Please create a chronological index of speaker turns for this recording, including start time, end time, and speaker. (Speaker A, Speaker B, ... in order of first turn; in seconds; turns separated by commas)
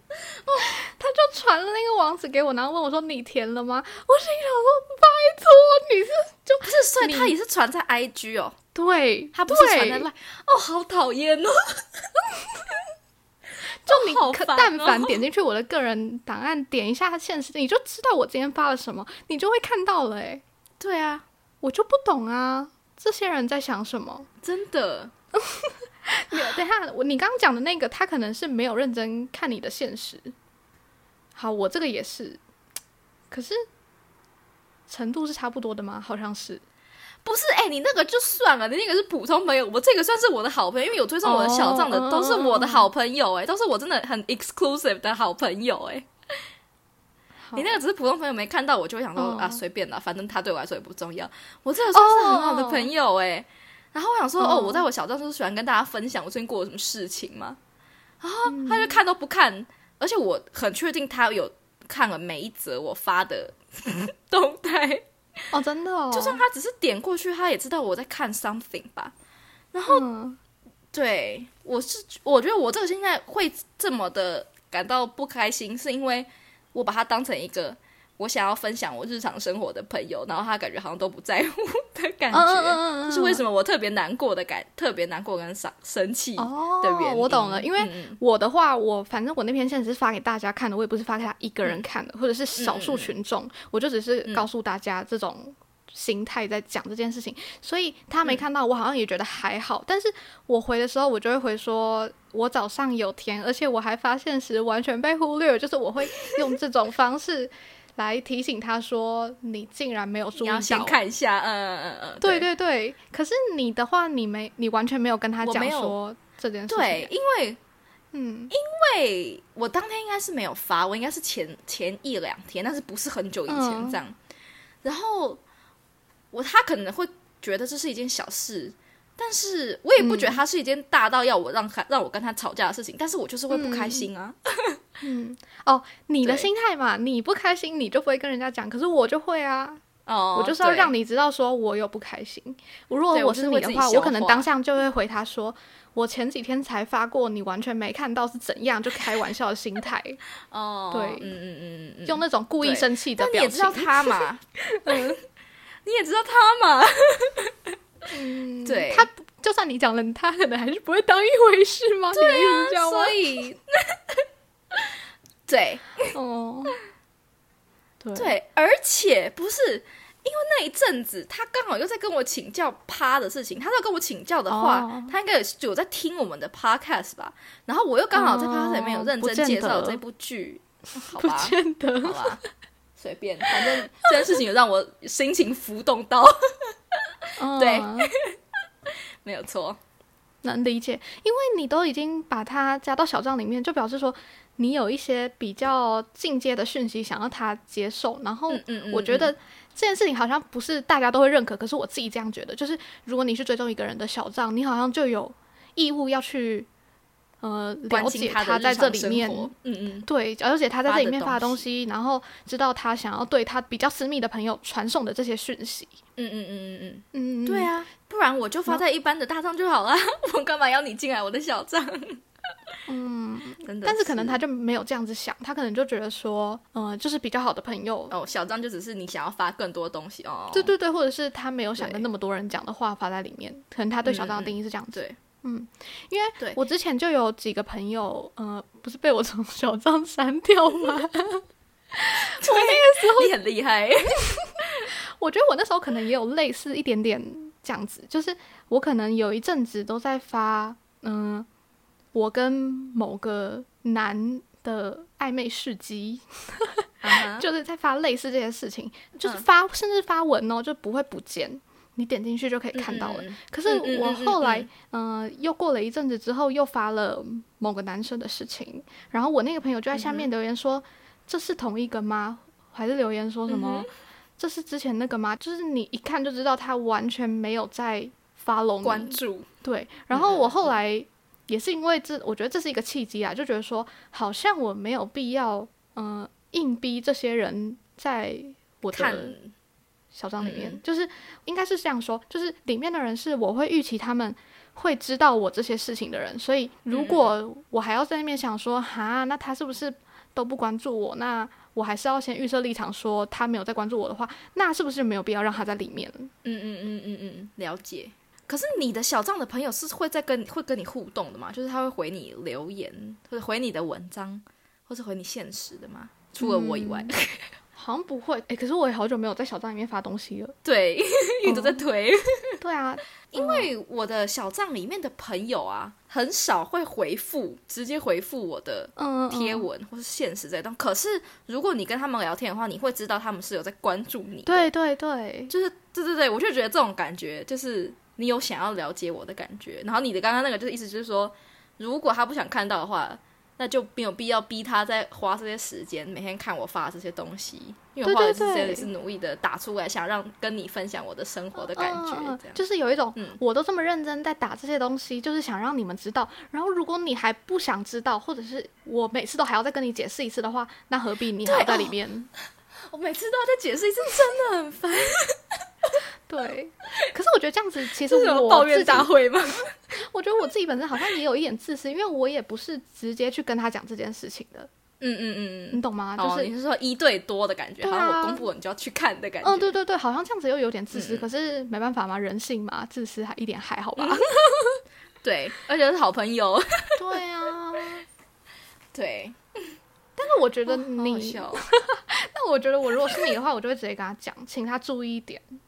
Speaker A: 0.4-0.8, Speaker B: 0.6-7.3, Speaker A: 6.6-8.6, Speaker B: 8.7-10.1, Speaker A: 9.3-12.7, Speaker A: 13.8-15.2, Speaker B: 13.8-20.4, Speaker A: 20.8-21.2, Speaker B: 21.6-24.3, Speaker A: 24.4-25.1, Speaker B: 25.4-30.3, Speaker B: 31.4-32.4, Speaker B: 33.3-33.6, Speaker B: 34.9-36.6, Speaker A: 37.2-46.1, Speaker B: 41.2-42.9, Speaker B: 47.5-47.8, Speaker A: 47.5-57.6, Speaker B: 49.2-49.6, Speaker B: 51.9-52.9, Speaker B: 54.4-54.9, Speaker A: 58.2-65.1, Speaker B: 58.5-59.0, Speaker B: 65.5-66.4, Speaker A: 66.1-69.1, Speaker A: 69.7-70.1, Speaker B: 69.9-70.4, Speaker A: 70.9-88.2, Speaker B: 82.3-83.4, Speaker B: 86.4-111.0, Speaker A: 92.6-93.1, Speaker A: 110.3-112.5, Speaker B: 112.2-117.1, Speaker A: 115.4-116.0, Speaker A: 116.7-117.6, Speaker B: 118.1-118.5, Speaker A: 118.5-124.2, Speaker B: 123.5-124.0, Speaker A: 124.8-125.4, Speaker A: 126.3-134.8, Speaker B: 130.0-130.4, Speaker B: 133.5-134.1, Speaker B: 135.0-139.8, Speaker A: 136.2-136.5, Speaker A: 140.1-140.9, Speaker B: 140.3-150.2, Speaker A: 143.1-144.5, Speaker A: 150.5-155.2, Speaker B: 150.9-151.3, Speaker B: 152.1-155.1, Speaker A: 155.8-157.8, Speaker B: 158.1-163.4, Speaker A: 158.7-159.1, Speaker A: 162.1-164.2, Speaker A: 165.5-166.2, Speaker B: 166.1-166.8, Speaker B: 168.0-168.3, Speaker A: 168.2-182.4, Speaker B: 174.5-175.1, Speaker B: 178.1-180.0, Speaker B: 181.0-182.5, Speaker A: 183.0-187.0, Speaker B: 183.5-184.1, Speaker B: 187.4-188.1, Speaker A: 187.6-188.4, Speaker A: 189.2-189.8, Speaker B: 190.4-206.7, Speaker A: 198.5-199.3, Speaker B: 207.4-209.5, Speaker A: 207.9-210.1, Speaker B: 210.1-215.9, Speaker A: 210.8-211.7, Speaker A: 216.2-222.2, Speaker B: 217.1-217.7, Speaker B: 222.9-228.2, Speaker A: 223.6-224.4, Speaker A: 228.1-230.7, Speaker B: 230.5-243.3, Speaker A: 231.8-232.1, Speaker A: 234.1-235.2, Speaker A: 242.4-244.9, Speaker B: 245.2-251.5, Speaker B: 252.1-289.4, Speaker A: 257.0-257.5, Speaker A: 262.7-264.7, Speaker A: 269.9-270.3, Speaker A: 273.5-273.9, Speaker A: 278.8-279.5, Speaker A: 280.1-280.8, Speaker A: 288.9-289.5, Speaker B: 290.1-306.3, Speaker A: 290.4-290.8, Speaker A: 296.9-297.4, Speaker A: 306.4-317.5, Speaker B: 316.4-317.1, Speaker B: 317.8-320.6, Speaker A: 320.6-322.6, Speaker B: 321.4-321.8, Speaker B: 322.6-323.7, Speaker A: 323.3-334.7, Speaker B: 329.0-329.7, Speaker B: 334.5-335.6, Speaker A: 335.5-352.6, Speaker B: 348.0-348.9, Speaker B: 351.7-362.3, Speaker A: 353.1-353.4, Speaker A: 361.4-361.9, Speaker A: 362.9-365.4, Speaker B: 366.3-369.1, Speaker A: 368.0-369.7, Speaker B: 369.9-374.7, Speaker A: 375.0-379.8, Speaker B: 375.7-376.5, Speaker B: 377.8-378.5, Speaker B: 379.4-384.8, Speaker A: 380.9-381.3, Speaker A: 384.0-384.2, Speaker A: 385.2-387.2, Speaker B: 387.0-388.1, Speaker A: 388.9-389.4, Speaker B: 390.2-395.6, Speaker A: 390.7-391.7